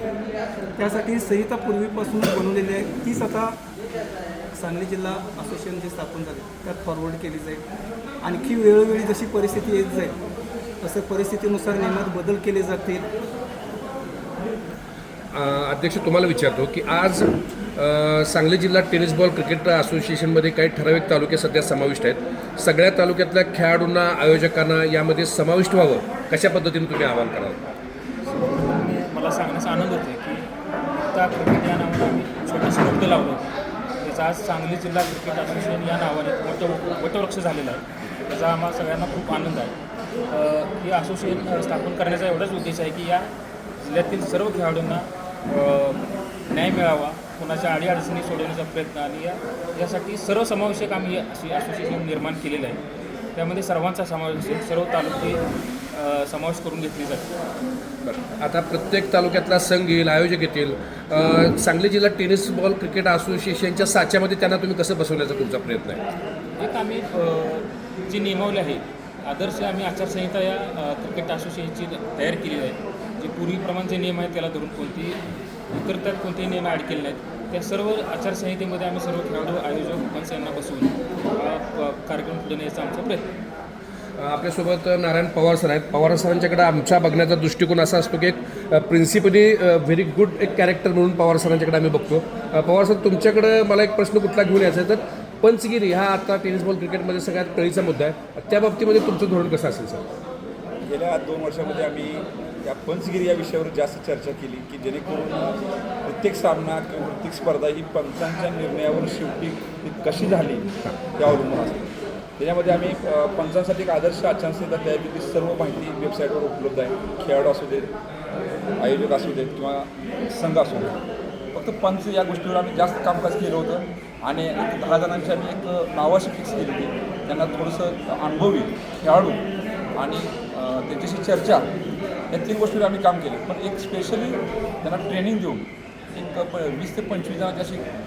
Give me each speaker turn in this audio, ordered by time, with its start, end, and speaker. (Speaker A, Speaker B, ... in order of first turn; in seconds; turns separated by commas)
Speaker A: 0.8-3.6, Speaker A: 4.5-7.7, Speaker A: 8.2-10.2, Speaker A: 10.8-13.1, Speaker B: 15.3-27.6, Speaker C: 28.3-30.4, Speaker C: 31.1-33.5, Speaker C: 34.0-39.7, Speaker C: 40.3-43.3, Speaker C: 43.8-52.8, Speaker C: 53.3-57.3, Speaker B: 58.0-66.0, Speaker C: 66.6-75.2, Speaker C: 75.7-83.2, Speaker B: 84.2-100.0, Speaker D: 100.8-105.5, Speaker D: 106.0-117.9, Speaker D: 118.8-121.0, Speaker D: 121.5-129.4, Speaker D: 129.9-131.7, Speaker D: 132.3-137.8